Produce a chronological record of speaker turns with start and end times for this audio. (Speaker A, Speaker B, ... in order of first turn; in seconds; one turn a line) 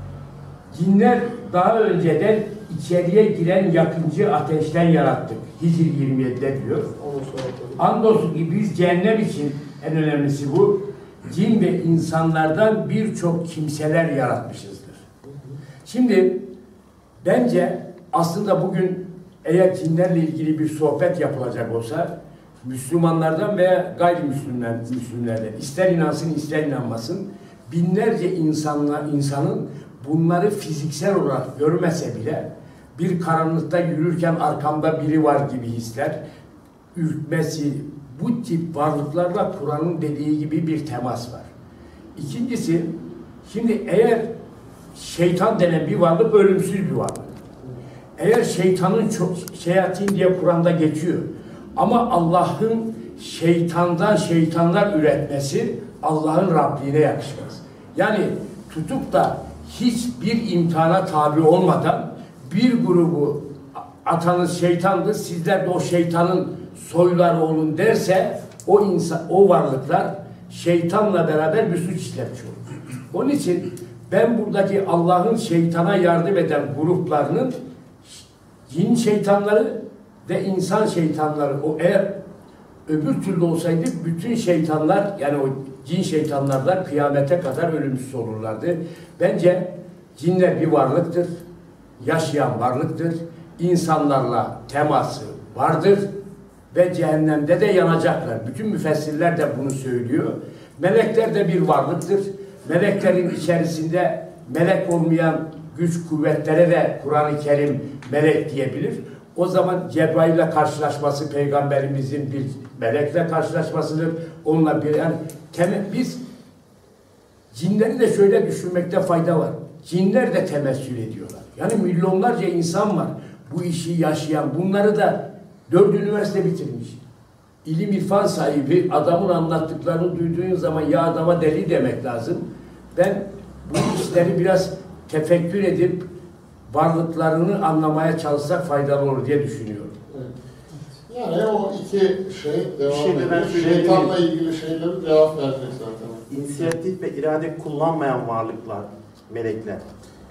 Speaker A: 0.7-6.9
Speaker B: 7.0-7.8
Speaker A: 7.8-15.0
Speaker B: 15.3-15.5
Speaker A: 15.8-16.4
Speaker A: 17.2-36.2
Speaker A: 36.9-41.5
Speaker A: 42.1-42.9
Speaker A: 43.5-44.3
Speaker A: 44.9-47.4
Speaker A: 48.2-63.4
Speaker A: 64.0-82.2
Speaker A: 82.9-91.3
Speaker A: 92.0-96.1
Speaker A: 96.7-116.2
Speaker A: 117.5-127.0
Speaker A: 127.6-136.1
Speaker A: 136.7-139.9
Speaker B: 141.1-146.7
Speaker C: 142.9-144.2
Speaker C: 146.3-149.8